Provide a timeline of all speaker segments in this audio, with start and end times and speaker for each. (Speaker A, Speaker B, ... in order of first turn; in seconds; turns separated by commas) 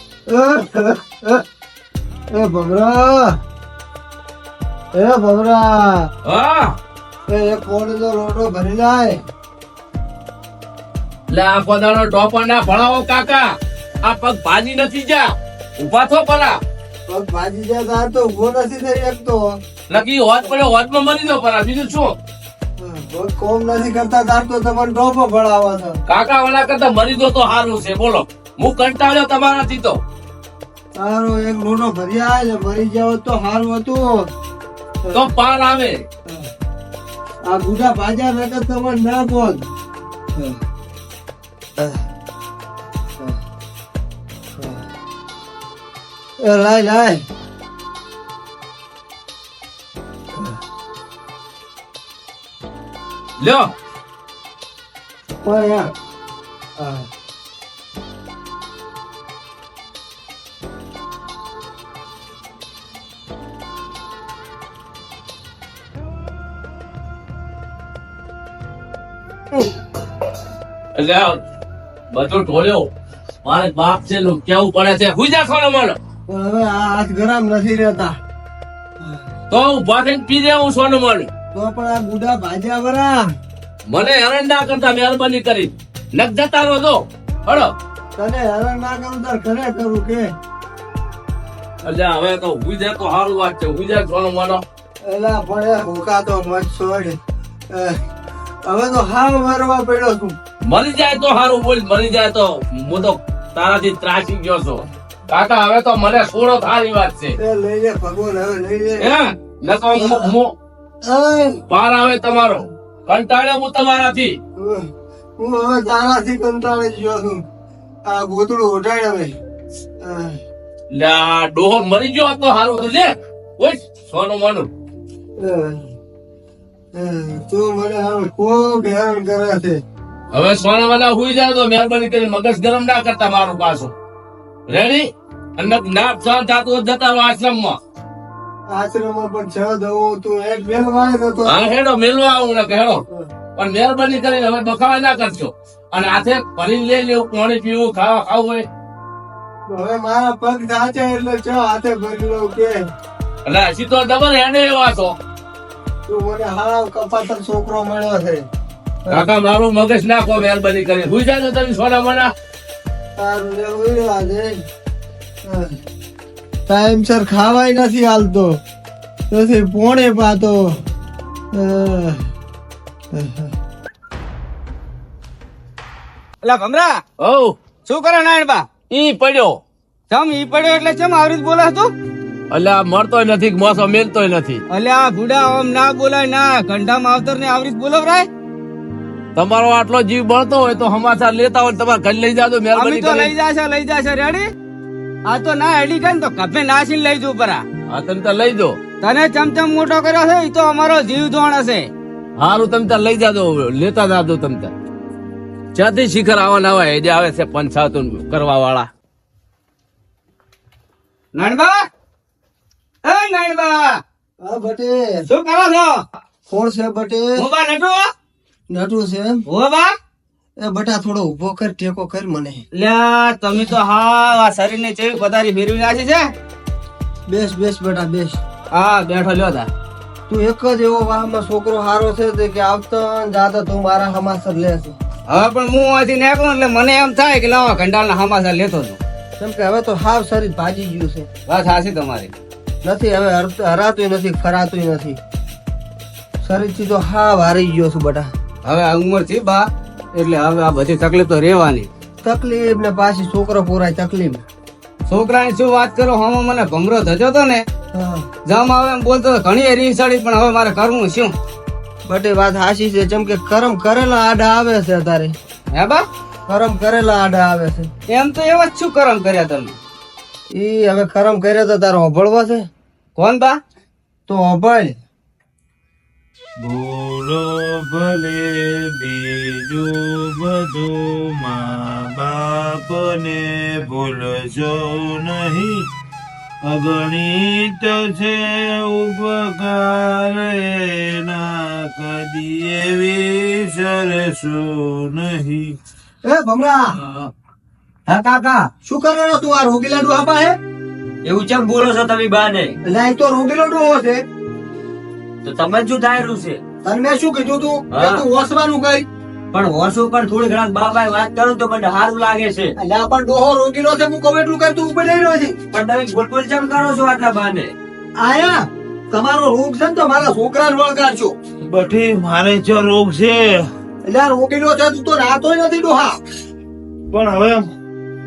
Speaker A: 0.3-1.4, Speaker A: 2.3-3.4, Speaker A: 4.9-6.1, Speaker B: 6.2-6.8, Speaker A: 7.3-9.2, Speaker B: 11.3-13.5, Speaker B: 14.0-16.6, Speaker A: 17.1-19.6, Speaker B: 19.9-22.2, Speaker A: 22.8-26.0, Speaker B: 26.1-30.0, Speaker A: 31.0-34.3, Speaker B: 35.1-36.0, Speaker A: 37.5-39.6, Speaker A: 46.4-47.2, Speaker B: 53.4-53.7, Speaker A: 55.4-55.9, Speaker A: 56.8-57.1, Speaker B: 71.0-71.4, Speaker B: 72.1-72.9, Speaker B: 73.4-76.0, Speaker A: 76.3-78.2, Speaker B: 79.5-81.3, Speaker A: 81.5-83.3, Speaker B: 83.9-87.7, Speaker A: 88.2-90.3, Speaker B: 91.8-94.6, Speaker A: 95.0-97.2, Speaker A: 97.7-98.0, Speaker A: 98.6-100.4, Speaker B: 100.6-107.3, Speaker A: 107.4-109.1, Speaker B: 109.0-110.5, Speaker A: 110.0-110.3, Speaker A: 111.0-111.6, Speaker B: 111.7-114.4, Speaker A: 114.6-117.4, Speaker A: 118.1-119.4, Speaker A: 120.0-120.4, Speaker B: 120.9-124.7, Speaker A: 125.4-125.8, Speaker A: 126.9-129.8, Speaker B: 130.3-133.9, Speaker B: 134.7-137.8, Speaker A: 138.7-141.6, Speaker B: 141.5-143.0, Speaker B: 143.6-148.7, Speaker A: 149.7-152.8, Speaker B: 153.5-155.2, Speaker A: 156.1-158.5, Speaker B: 159.1-162.3, Speaker A: 163.2-164.5, Speaker A: 165.4-165.8, Speaker A: 166.7-168.6, Speaker A: 169.3-170.8, Speaker A: 171.5-172.2, Speaker A: 173.1-173.5, Speaker C: 176.4-177.0, Speaker B: 177.2-177.6, Speaker C: 177.9-178.7, Speaker B: 178.9-179.6, Speaker C: 180.1-181.9, Speaker B: 182.5-184.6, Speaker C: 184.7-188.3, Speaker B: 189.4-193.3, Speaker C: 192.8-194.5, Speaker C: 195.3-197.6, Speaker B: 197.9-198.8, Speaker C: 199.0-201.9, Speaker B: 202.4-204.7, Speaker B: 205.8-208.9, Speaker C: 211.3-211.9, Speaker C: 213.0-214.0, Speaker A: 214.4-215.2, Speaker C: 215.3-216.1, Speaker A: 216.5-217.5, Speaker C: 217.4-218.1, Speaker A: 218.7-219.4, Speaker C: 219.5-219.9, Speaker A: 220.6-222.6, Speaker C: 222.7-226.3, Speaker A: 227.3-228.4, Speaker C: 228.7-229.7, Speaker A: 230.3-235.0, Speaker C: 235.3-239.0, Speaker A: 239.4-241.3, Speaker C: 241.5-242.3, Speaker A: 242.8-245.2, Speaker A: 246.4-248.3, Speaker C: 248.7-251.9, Speaker A: 252.2-254.4, Speaker C: 255.1-257.6, Speaker A: 257.9-258.3, Speaker C: 258.5-261.3, Speaker A: 262.1-265.4, Speaker C: 265.7-266.1, Speaker A: 266.5-267.9, Speaker C: 268.1-269.8, Speaker A: 270.5-272.7, Speaker C: 273.2-273.6, Speaker A: 274.3-275.0, Speaker D: 276.6-285.9, Speaker D: 286.6-295.8, Speaker A: 296.2-297.0, Speaker E: 298.1-298.7, Speaker A: 298.9-300.6, Speaker E: 301.2-302.8, Speaker A: 302.8-304.2, Speaker E: 305.4-306.6, Speaker A: 306.8-309.1, Speaker E: 307.9-308.2, Speaker E: 309.5-312.7, Speaker A: 312.8-315.6, Speaker E: 315.7-317.7, Speaker A: 318.2-321.4, Speaker D: 321.7-323.6, Speaker A: 324.1-326.2, Speaker D: 327.1-327.6